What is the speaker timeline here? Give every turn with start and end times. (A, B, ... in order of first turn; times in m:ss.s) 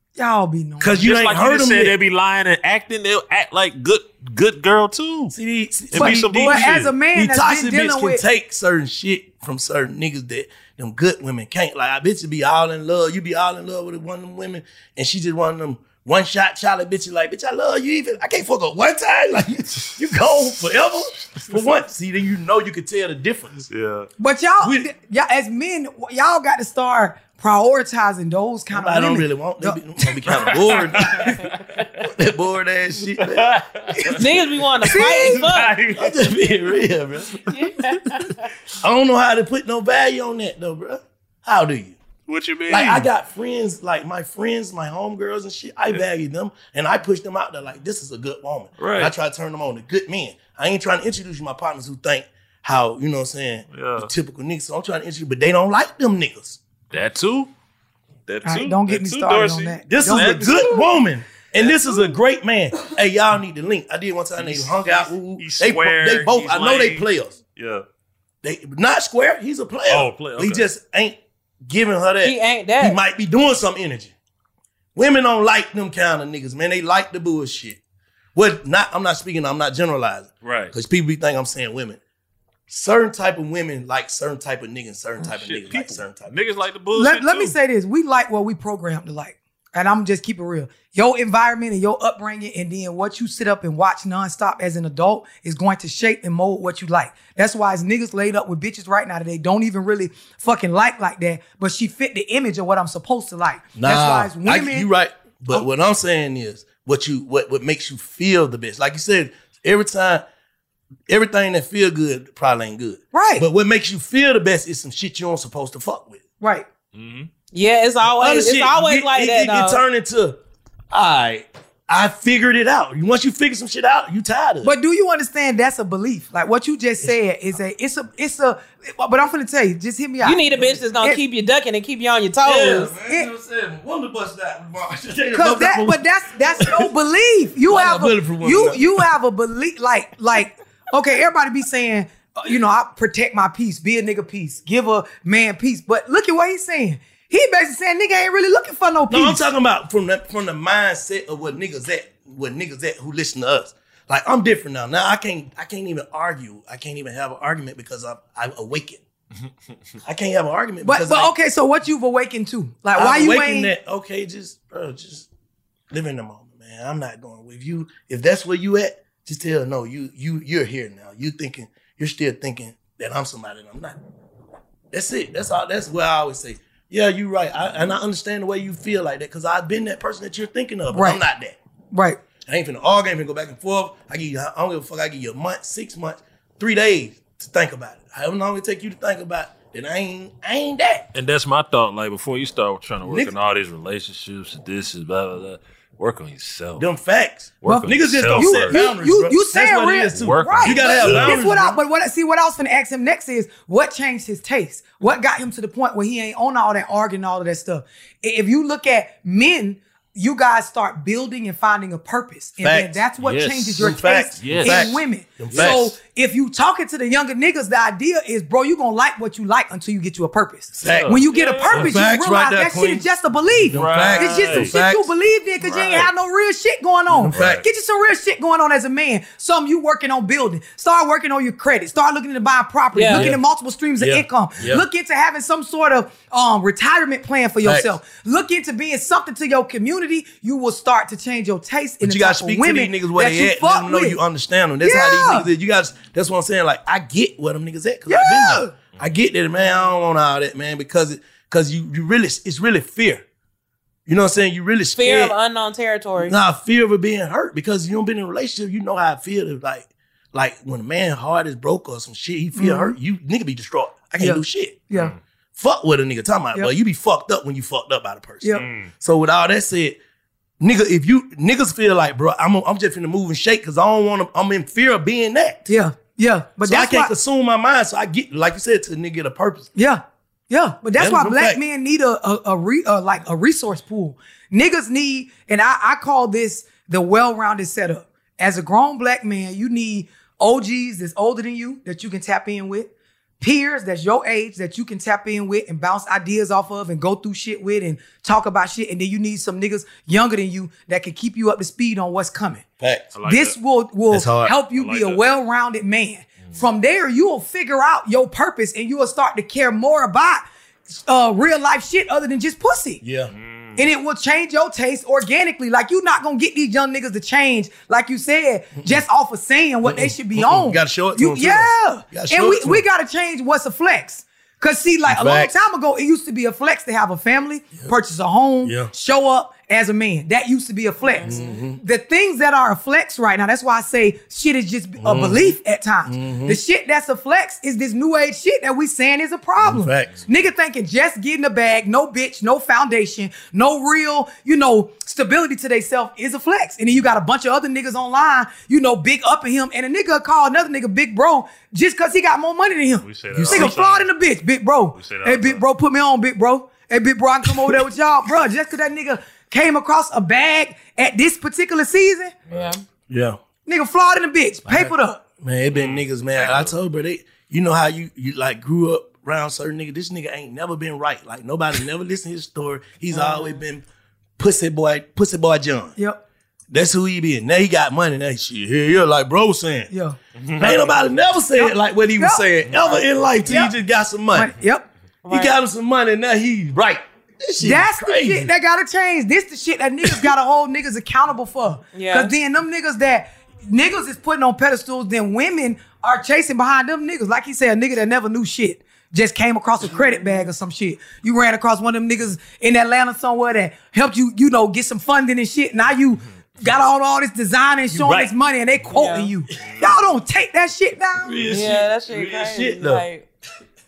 0:00.2-0:01.0 A
0:00.8-0:01.9 B
0:01.0-0:05.3 C
0:05.3-0:23.6 B
0:05.9-0:06.9 C
0:05.9-0:08.2 A
0:21.2-0:21.5 C
0:23.7-0:24.1 C
0:24.2-0:30.6 A
0:24.6-0:24.9 B
0:28.7-0:31.5 B
0:30.5-0:31.8 C
0:32.0-0:34.2 B
0:33.2-0:34.2 C
0:34.2-0:35.7 D
0:34.9-0:36.6 C
0:34.9-0:35.4 A
0:35.9-0:37.4 B
0:38.8-0:42.0 B
0:42.3-0:43.1 C
0:42.7-0:56.6 B
0:48.8-0:49.1 C
0:53.7-0:54.1 C
0:56.9-0:57.5 C
0:58.3-1:00.5 C
0:58.4-1:00.9 A
0:59.9-1:07.3 B
1:01.6-1:02.1 A
1:04.4-1:07.8 C
1:08.4-1:14.1 B
1:09.9-1:10.7 C
1:12.2-1:13.0 D
1:14.9-1:17.8 B
1:18.3-1:22.0 B
1:20.4-1:20.7 C
1:22.7-1:26.3 B
1:25.2-1:27.6 C
1:26.9-1:44.9 A
1:43.7-1:50.2 B
1:51.1-1:56.2 B
1:53.1-1:53.4 A
1:56.4-1:56.6 A
1:56.9-1:57.3 C
1:57.5-1:59.8 D
1:58.1-2:00.4 B
2:00.9-2:04.7 B
2:04.6-2:10.4 A
2:10.2-2:12.9 D
2:12.4-2:16.0 B
2:13.0-2:13.3 A
2:15.3-2:29.4 A
2:16.5-2:16.9 B
2:17.7-2:19.0 B
2:29.1-2:39.0 B
2:40.0-2:41.3 B
2:40.8-2:43.7 A
2:42.9-2:45.3 B
2:45.9-2:54.0 B
2:54.9-3:01.6 B
3:00.9-3:01.2 A
3:01.9-3:02.2 A
3:02.4-3:11.1 B
3:11.1-3:16.9 C
3:13.0-3:13.3 B
3:16.8-3:21.8 B
3:17.6-3:18.8 C
3:17.6-4:04.2 A
3:20.1-3:21.5 C
3:32.6-3:32.9 B
3:33.2-3:35.8 C
3:33.7-3:36.0 B
3:40.7-3:45.1 B
3:40.8-3:42.0 C
3:43.7-3:44.7 C
3:45.6-3:46.1 C
3:47.1-3:47.6 C
3:47.1-3:47.6 B
3:52.9-3:53.3 D
3:53.1-3:53.4 B
3:54.0-3:54.8 B
3:57.6-3:57.9 B
4:02.0-4:13.2 B
4:04.8-4:05.5 A
4:08.1-4:08.7 A
4:14.0-4:15.3 B
4:14.9-4:16.3 D
4:16.2-4:24.9 B
4:22.6-4:22.9 A
4:24.2-4:25.1 A
4:24.9-4:25.2 C
4:25.5-4:30.0 B
4:28.6-4:28.9 C
4:30.6-4:35.7 B
4:35.7-4:37.1 A
4:36.6-4:39.7 B
4:39.7-5:02.6 A
4:41.0-4:41.6 B
5:02.8-5:03.1 B
5:03.1-5:03.6 C
5:03.2-5:13.0 A
5:04.1-5:04.5 B
5:04.7-5:05.2 C
5:13.0-5:13.3 B
5:13.3-5:13.8 C
5:13.8-6:02.3 A
5:19.8-5:22.8 B
5:25.0-5:25.5 B
5:28.6-5:28.9 B
5:31.0-5:31.6 D
5:31.2-5:31.8 B
5:35.0-5:36.6 B
5:39.6-5:40.2 B
5:53.0-5:54.1 C
5:53.3-5:53.8 B
5:54.9-5:55.6 C
6:02.5-6:02.8 D
6:03.1-6:03.4 B
6:03.6-6:05.2 A
6:04.7-6:13.8 B
6:05.7-6:06.8 C
6:13.1-6:13.6 A
6:14.4-6:16.0 B
6:16.7-6:19.9 B
6:19.9-6:20.2 A
6:20.4-6:21.1 C
6:20.6-6:24.5 B
6:21.6-6:23.8 A
6:24.3-6:24.9 A
6:25.2-6:25.5 D
6:25.3-6:28.5 B
6:27.6-6:51.4 A
6:31.9-6:32.3 D
6:39.9-6:40.5 D
6:47.9-6:48.3 B
6:48.9-6:49.3 D
6:49.6-6:50.0 B
6:49.6-6:50.1 C
6:51.2-6:53.0 B
6:51.5-6:53.3 D